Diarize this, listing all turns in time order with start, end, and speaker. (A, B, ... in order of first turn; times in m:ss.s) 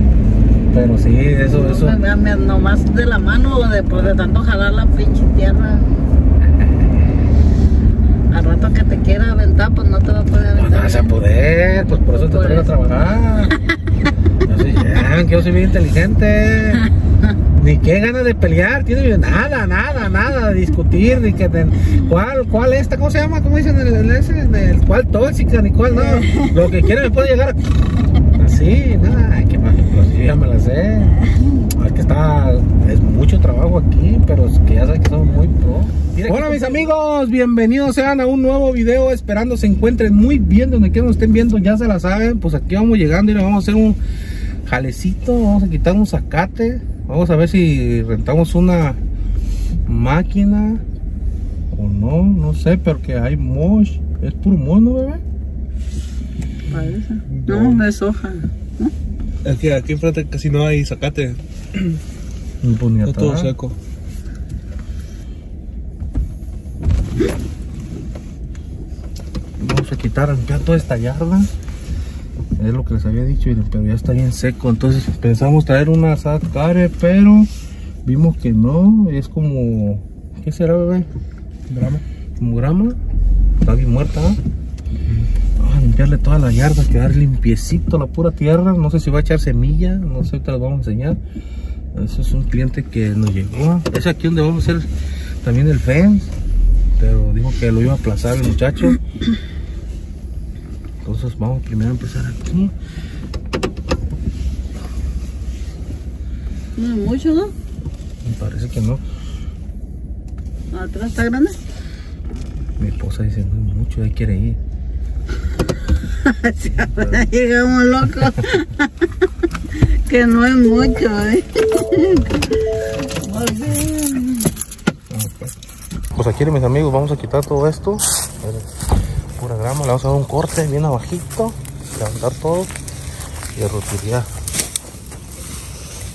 0:00.7-0:02.0 A
0:01.5-0:05.9 B
0:08.3-0:11.2 B
0:10.6-0:13.6 A
0:12.1-0:12.7 B
0:14.4-0:16.9 A
0:17.5-0:27.6 A
0:25.9-0:27.1 B
0:28.3-0:44.0 A
0:31.2-0:31.6 B
0:36.2-0:36.9 B
0:44.7-0:49.0 A
0:49.9-0:50.8 A
0:51.7-0:55.2 A
0:56.7-0:58.9 B
0:57.3-0:57.8 C
0:59.4-1:02.0 C
1:02.6-1:03.5 A
1:03.0-1:03.8 C
1:09.6-1:11.5 A
1:12.6-1:17.5 A
1:18.0-1:21.1 A
1:21.7-1:23.0 A
1:23.6-1:24.4 A
1:25.6-1:31.2 A
1:31.9-1:34.9 A
1:35.4-1:36.3 A
1:37.0-1:39.0 A
1:41.0-1:42.7 A
1:46.8-1:47.5 B
1:48.2-1:49.0 A
1:50.7-1:51.6 B
1:52.8-1:54.6 A
1:55.6-2:04.5 B
2:05.1-2:05.5 A
2:06.1-2:08.7 A
2:09.4-2:12.7 A
2:13.6-2:14.3 A